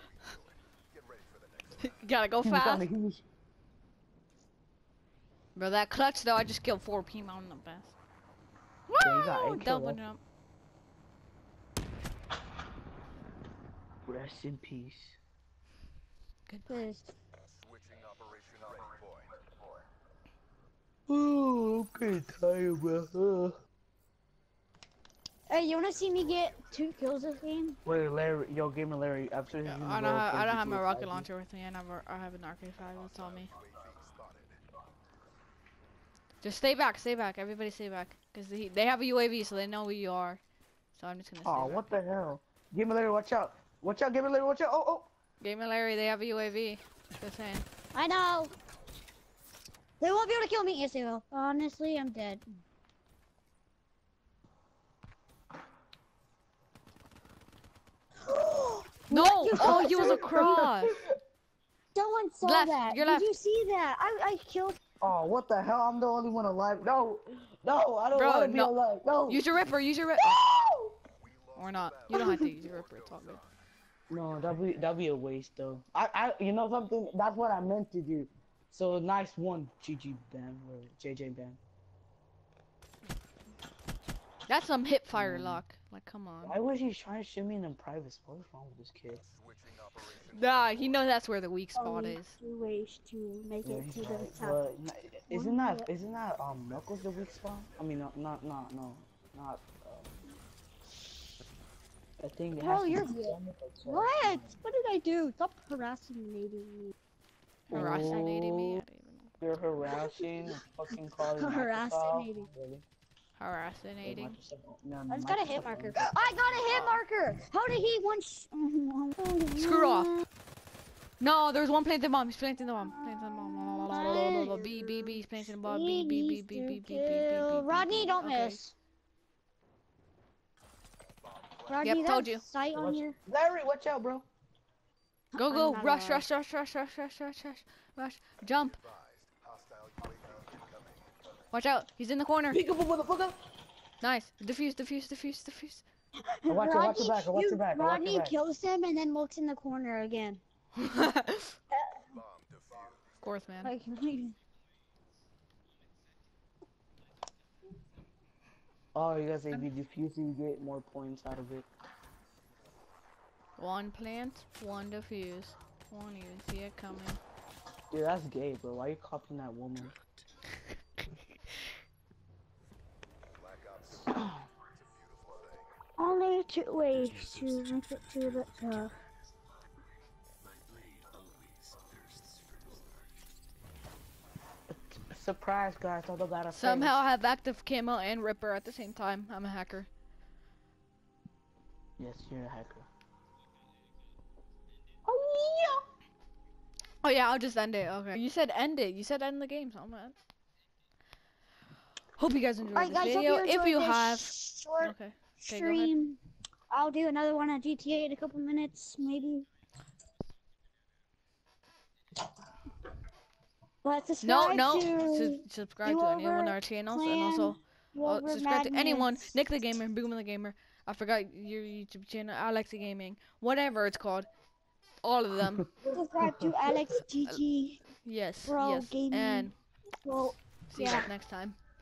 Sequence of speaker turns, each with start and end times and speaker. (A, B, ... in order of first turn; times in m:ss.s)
0:01.8-0:02.9 A
0:02.4-0:03.2 B
0:05.5-0:07.9 A
0:08.9-0:10.2 A
0:09.0-0:10.0 B
0:14.0-0:15.2 B
0:16.5-0:16.8 A
0:16.7-0:17.1 C
0:18.0-0:18.9 D
0:21.1-0:23.5 B
0:25.5-0:27.8 C
0:27.8-0:31.3 B
0:29.6-0:33.5 A
0:33.9-0:34.3 D
0:36.4-0:40.4 A
0:40.9-0:41.8 A
0:41.4-0:45.1 B
0:45.4-0:47.6 A
0:47.9-0:48.5 C
0:50.0-0:52.6 C
0:58.6-1:00.7 C
0:59.1-1:00.9 A
0:59.1-1:01.1 B
1:01.9-1:04.8 C
1:02.4-1:03.3 A
1:05.0-1:09.4 B
1:08.1-1:08.7 A
1:09.3-1:10.4 A
1:10.2-1:10.9 B
1:11.6-1:13.4 A
1:12.1-1:12.4 D
1:12.1-1:12.4 C
1:14.1-1:21.6 B
1:24.5-1:26.5 A
1:25.1-1:25.6 B
1:26.4-1:29.2 B
1:29.7-1:30.2 D
1:30.2-1:32.3 A
1:31.8-1:34.6 C
1:33.6-1:40.1 B
1:35.3-1:35.9 C
1:42.2-1:44.5 B
1:42.5-1:46.9 C
1:47.7-1:48.8 B
1:47.7-1:49.3 A
1:49.4-1:52.8 B
1:49.9-1:50.2 C
1:51.2-1:52.5 C
1:53.4-1:54.4 A
1:54.0-1:56.1 B
1:55.1-2:00.2 C
1:56.7-1:57.0 A
1:59.6-2:00.1 A
2:01.2-2:08.6 A
2:02.8-2:08.7 C
2:11.6-2:13.2 C
2:11.8-2:12.4 A
2:12.7-2:14.2 B
2:15.4-2:18.8 A
2:15.4-2:16.2 C
2:19.5-2:20.6 D
2:21.5-2:22.6 A
2:22.5-2:23.4 B
2:24.0-2:25.8 A
2:26.4-2:30.4 C
2:26.5-2:28.3 B
2:30.8-2:31.5 A
2:31.7-2:32.0 C
2:33.2-2:33.7 A
2:33.6-2:34.4 C
2:38.9-2:41.7 B
2:43.6-2:47.2 A
2:47.9-2:50.0 B
2:54.0-2:54.4 B
2:56.0-2:58.9 C
3:00.7-3:02.8 D
3:04.7-3:07.0 B
3:06.5-3:09.9 A
3:12.0-3:12.9 B
3:15.0-3:15.8 C
3:17.0-3:20.1 A
3:22.2-3:25.9 A
3:22.7-3:26.2 C
3:26.7-3:29.4 C
3:33.8-3:39.2 C
3:34.2-3:44.3 A
3:45.0-3:45.8 A
3:45.8-3:47.8 C
3:48.0-3:49.5 A
3:48.5-3:51.1 C
3:50.7-3:51.6 A